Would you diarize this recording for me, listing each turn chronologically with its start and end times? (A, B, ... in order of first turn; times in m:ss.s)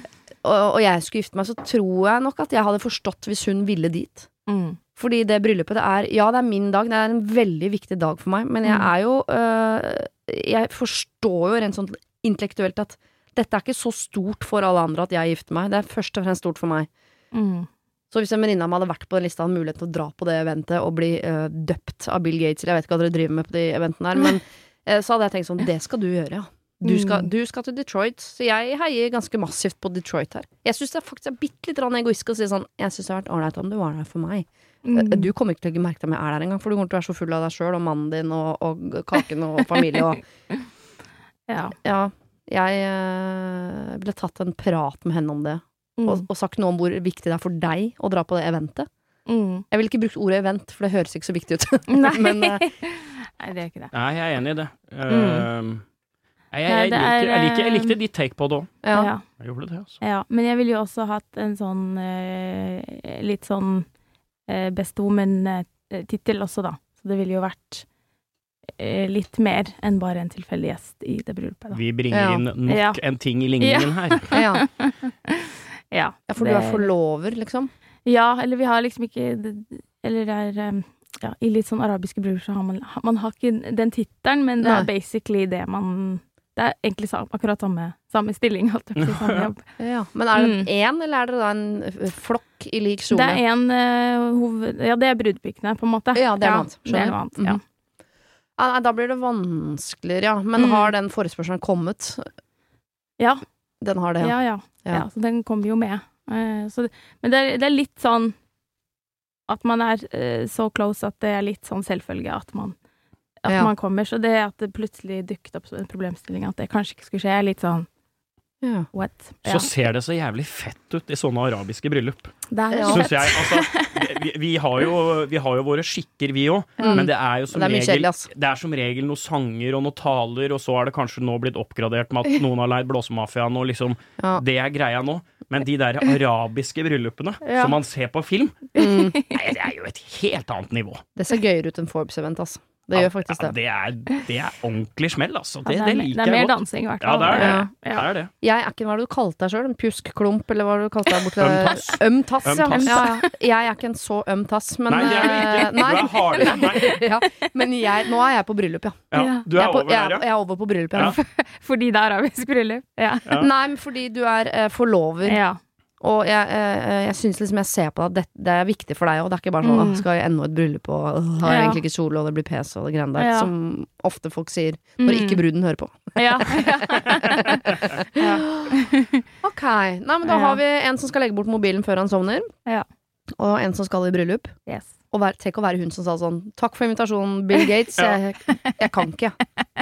0:00.4-0:04.3 A
0:04.5-0:04.8 B
0:05.0-0:16.9 A
0:08.6-0:08.9 B
0:17.3-0:17.7 B
0:18.1-0:40.2 A
0:26.8-0:27.3 B
0:34.8-0:35.3 B
0:41.5-0:41.7 B
0:41.8-0:48.9 A
0:46.0-0:46.2 B
0:49.3-0:49.6 B
0:49.7-0:52.7 A
0:51.9-0:53.9 B
0:53.9-0:55.8 C
0:55.1-0:55.5 B
0:56.5-0:58.7 C
0:56.6-0:58.0 B
0:58.8-0:59.1 A
0:58.9-0:59.2 B
0:59.4-1:00.0 C
1:00.0-1:03.9 B
1:04.5-1:07.8 B
1:08.8-1:11.8 B
1:11.7-1:14.4 C
1:12.1-1:12.4 A
1:12.6-1:13.0 B
1:13.6-1:16.9 B
1:14.3-1:14.6 A
1:16.3-1:17.7 A
1:18.0-1:29.6 B
1:24.6-1:24.9 A
1:29.0-1:29.5 C
1:29.8-1:33.4 A
1:30.3-1:30.7 B
1:33.1-1:37.6 B
1:36.1-1:37.6 A
1:38.6-1:42.2 A
1:40.6-1:40.9 B
1:43.8-1:45.0 A
1:44.2-1:48.3 B
1:49.5-1:52.8 B
1:53.4-1:57.9 B
1:58.6-1:58.9 A
1:58.9-1:59.7 B
1:59.4-2:02.3 C
2:02.5-2:03.9 B
2:02.7-2:03.1 A
2:02.9-2:18.8 C
2:06.8-2:07.0 B
2:06.8-2:08.3 A
2:17.4-2:17.8 B
2:18.8-2:19.2 A
2:18.8-2:19.4 B
2:19.3-2:21.0 C
2:21.2-2:23.5 A
2:22.9-2:28.3 C
2:25.6-2:28.1 B
2:27.3-2:27.7 A
2:28.4-2:39.0 A
2:31.4-2:33.1 C
2:32.6-2:33.2 B
2:34.9-2:37.0 C
2:35.0-2:35.7 B
2:36.4-2:36.7 B
2:39.1-2:40.2 C
2:39.1-2:39.5 B
2:39.5-2:41.2 A
2:41.0-2:43.4 B
2:43.4-2:45.4 A
2:45.2-2:45.6 B
2:46.0-2:57.4 A
2:49.6-2:50.0 B
2:51.4-2:51.8 B
2:53.2-2:53.5 B
2:55.0-2:55.4 B
2:56.2-2:59.2 B
2:58.2-2:58.7 A
2:59.4-3:02.5 A
3:00.2-3:00.6 B
3:03.4-3:04.5 A
3:04.6-3:04.9 B
3:05.1-3:09.4 A